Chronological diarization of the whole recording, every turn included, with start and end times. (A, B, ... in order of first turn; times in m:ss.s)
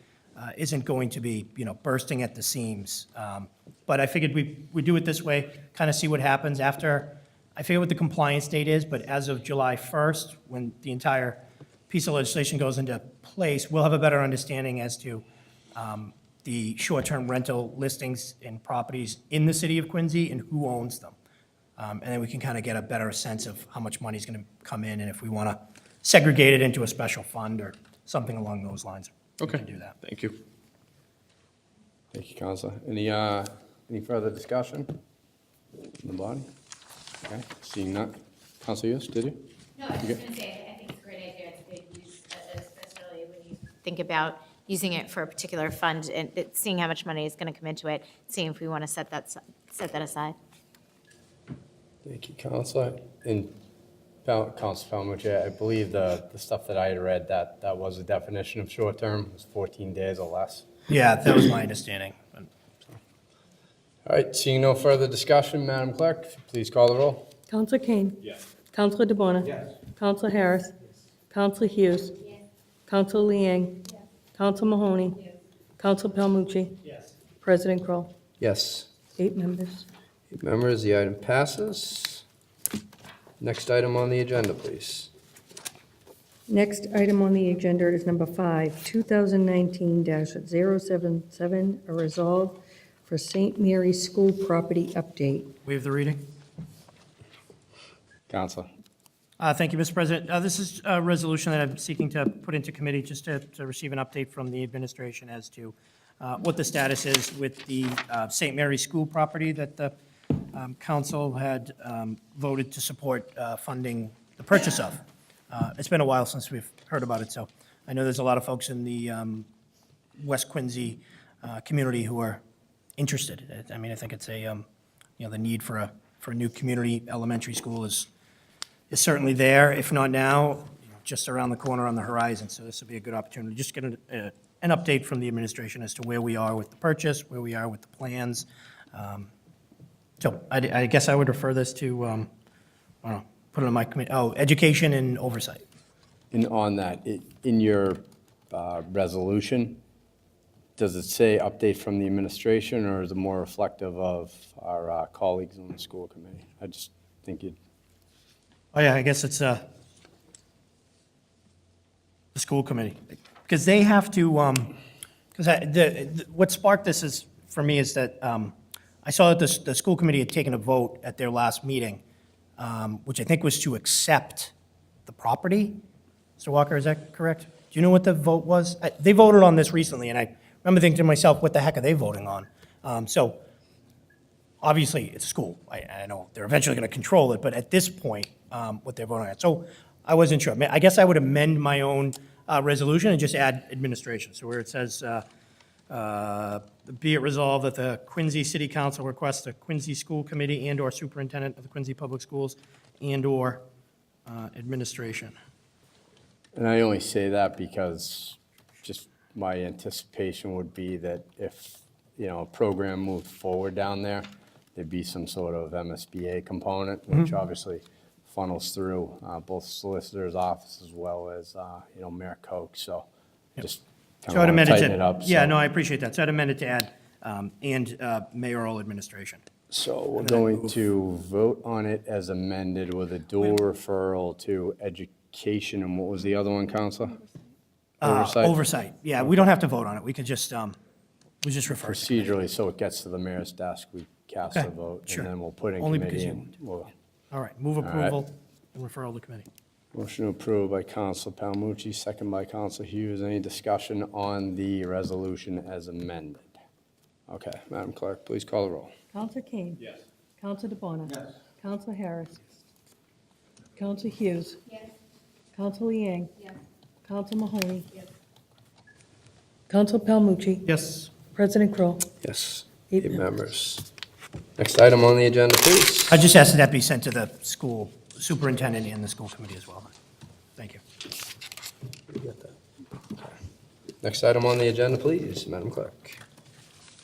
0:00.4-0:15.2 A
0:15.7-0:21.1 A
0:21.8-0:30.0 A
0:29.4-0:30.4 B
0:32.1-0:35.0 B
0:36.0-0:36.5 B
0:37.2-0:39.4 B
0:39.8-0:50.4 C
0:52.0-0:53.6 B
0:54.2-1:00.6 B
1:00.9-1:02.5 A
1:04.0-1:07.3 B
1:07.5-1:08.2 D
1:08.7-1:10.7 D
1:11.3-1:12.2 D
1:12.9-1:15.2 D
1:15.8-1:16.8 D
1:17.4-1:18.1 D
1:18.4-1:18.9 B
1:19.2-1:19.9 D
1:20.3-1:22.2 B
1:23.4-1:25.1 B
1:26.5-1:35.5 D
1:35.6-1:36.2 A
1:38.3-1:38.7 B
1:39.4-1:59.5 A
2:00.2-2:02.4 A
2:03.0-2:04.6 A
2:05.2-2:08.1 A
2:08.9-2:19.3 A
2:20.2-2:22.3 A
2:23.0-2:25.6 A
2:26.3-2:29.8 B
2:30.8-2:37.6 B
2:38.7-2:39.6 A
2:42.3-2:44.8 A
2:45.3-2:52.0 A
2:52.6-2:54.5 A
2:55.1-2:55.8 A
2:56.4-3:03.4 A
3:04.6-3:15.2 A
3:15.9-3:23.6 A
3:24.3-3:25.3 A
3:26.6-3:43.0 B
3:43.6-3:45.5 B
3:44.3-3:49.4 A
3:49.7-3:57.2 B
3:50.2-3:50.5 A
3:58.0-4:00.8 A
3:58.0-3:58.6 B
3:59.2-3:59.5 B
4:01.4-4:02.4 A
4:01.8-4:06.9 B
4:04.5-4:05.3 A
4:05.8-4:06.5 A
4:07.3-4:09.5 A
4:07.8-4:08.2 B
4:09.9-4:16.5 B
4:17.3-4:18.9 B
4:19.1-4:22.4 D
4:23.8-4:24.8 D
4:25.6-4:26.5 D
4:27.0-4:28.0 D
4:29.7-4:30.7 D
4:30.6-4:31.1 A
4:31.3-4:32.1 D
4:32.2-4:33.9 B
4:34.6-4:36.2 B
4:36.1-4:39.9 A
4:40.6-4:40.8 A
4:42.2-4:42.5 B
4:44.0-4:46.2 B